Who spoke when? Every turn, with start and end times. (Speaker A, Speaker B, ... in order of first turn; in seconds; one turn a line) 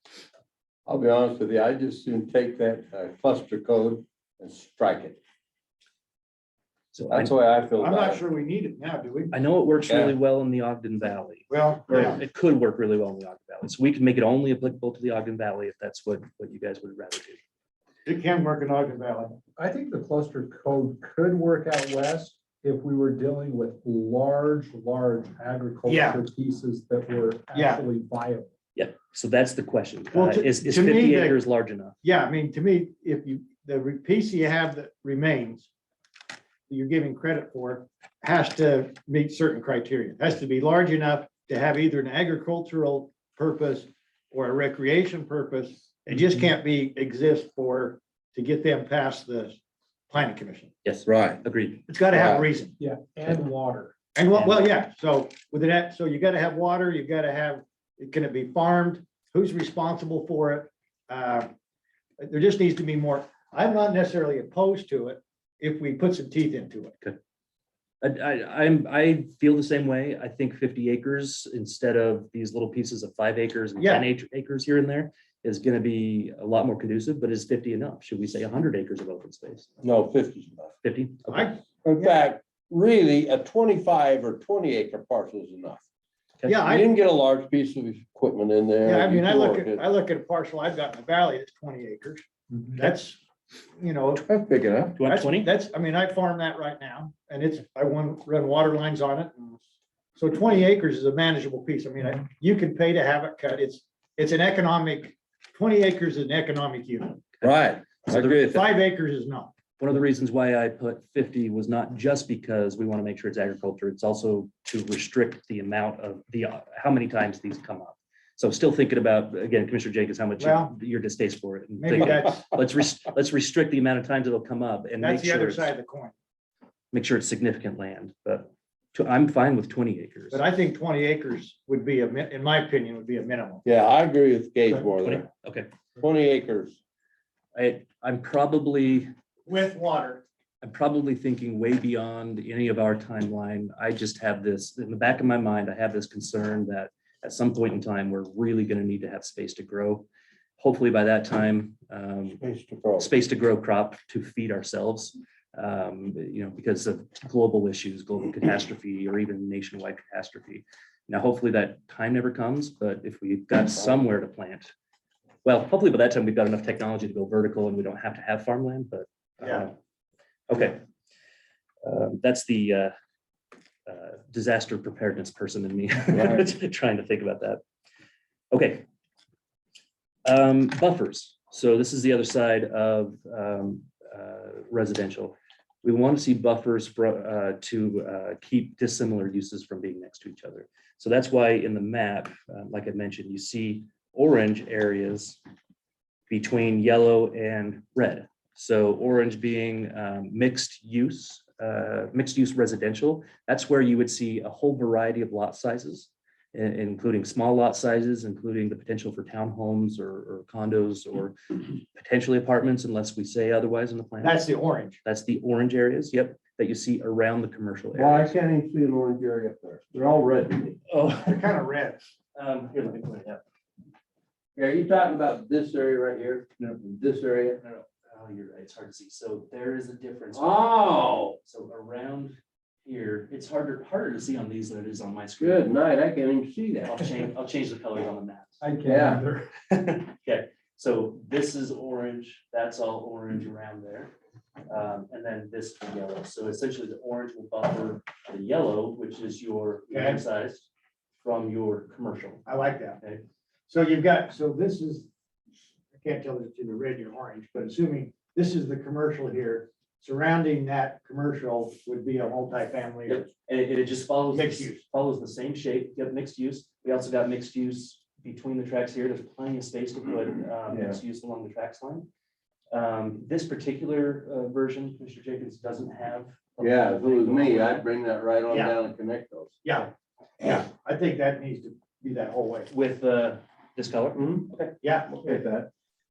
Speaker A: 0.9-5.2
Speaker B: 6.9-7.3
Speaker A: 7.1-8.2
Speaker C: 7.8-9.3
Speaker B: 9.3-17.4
Speaker A: 9.9-10.2
Speaker C: 11.5-12.2
Speaker C: 18.1-19.4
Speaker D: 19.6-28.5
Speaker C: 25.9-26.2
Speaker C: 27.5-27.8
Speaker B: 28.8-31.9
Speaker C: 30.1-31.4
Speaker C: 32.0-35.7
Speaker C: 36.7-49.6
Speaker C: 50.1-50.7
Speaker B: 50.9-51.8
Speaker A: 51.1-51.4
Speaker C: 51.9-52.8
Speaker A: 52.1-52.5
Speaker D: 52.8-53.9
Speaker C: 54.1-61.5
Speaker B: 54.3-54.7
Speaker C: 62.2-67.0
Speaker B: 68.0-79.8
Speaker C: 73.8-74.1
Speaker A: 79.8-80.7
Speaker B: 80.8-81.6
Speaker C: 81.3-82.1
Speaker A: 81.8-85.8
Speaker C: 86.5-86.9
Speaker A: 86.6-89.8
Speaker C: 88.8-93.2
Speaker C: 93.8-94.2
Speaker A: 94.2-95.0
Speaker B: 95.0-95.5
Speaker C: 95.0-99.6
Speaker C: 100.2-107.2
Speaker A: 107.4-108.7
Speaker B: 108.1-108.4
Speaker C: 108.4-109.5
Speaker B: 109.8-125.7
Speaker C: 120.4-120.7
Speaker C: 121.8-122.6
Speaker C: 125.0-126.1
Speaker B: 126.9-130.4
Speaker C: 130.3-133.6
Speaker A: 133.7-135.3
Speaker B: 135.0-135.7
Speaker A: 136.0-136.8
Speaker B: 137.6-139.1
Speaker C: 139.5-140.2
Speaker B: 140.6-150.1
Speaker B: 150.6-152.4
Speaker A: 152.4-153.1
Speaker B: 153.0-164.7
Speaker B: 165.4-169.7
Speaker B: 170.5-170.8
Speaker B: 171.8-172.9
Speaker B: 173.9-177.6
Speaker A: 176.1-176.5
Speaker B: 178.5-178.8
Speaker B: 180.2-195.4
Speaker B: 196.3-214.4
Speaker C: 214.2-215.0
Speaker B: 215.0-218.3
Speaker A: 217.9-220.8
Speaker B: 220.9-221.6
Speaker C: 221.2-222.1
Speaker B: 222.3-223.4
Speaker A: 224.6-227.6
Speaker B: 227.6-230.7
Speaker A: 230.3-231.4
Speaker B: 231.4-235.7
Speaker A: 235.4-237.1
Speaker B: 236.8-238.6
Speaker D: 238.6-239.5
Speaker A: 238.9-239.2
Speaker B: 239.7-244.1
Speaker B: 244.7-250.7
Speaker C: 249.9-250.2
Speaker B: 251.2-252.4
Speaker C: 252.5-253.0
Speaker C: 253.7-255.1
Speaker C: 256.0-263.3
Speaker B: 263.1-272.1
Speaker C: 264.3-264.8
Speaker A: 270.7-271.0
Speaker B: 272.7-277.9
Speaker A: 276.6-279.6
Speaker C: 278.5-278.8
Speaker C: 279.6-282.7
Speaker B: 282.7-285.4
Speaker A: 284.2-284.5
Speaker C: 284.8-285.1
Speaker A: 285.1-285.7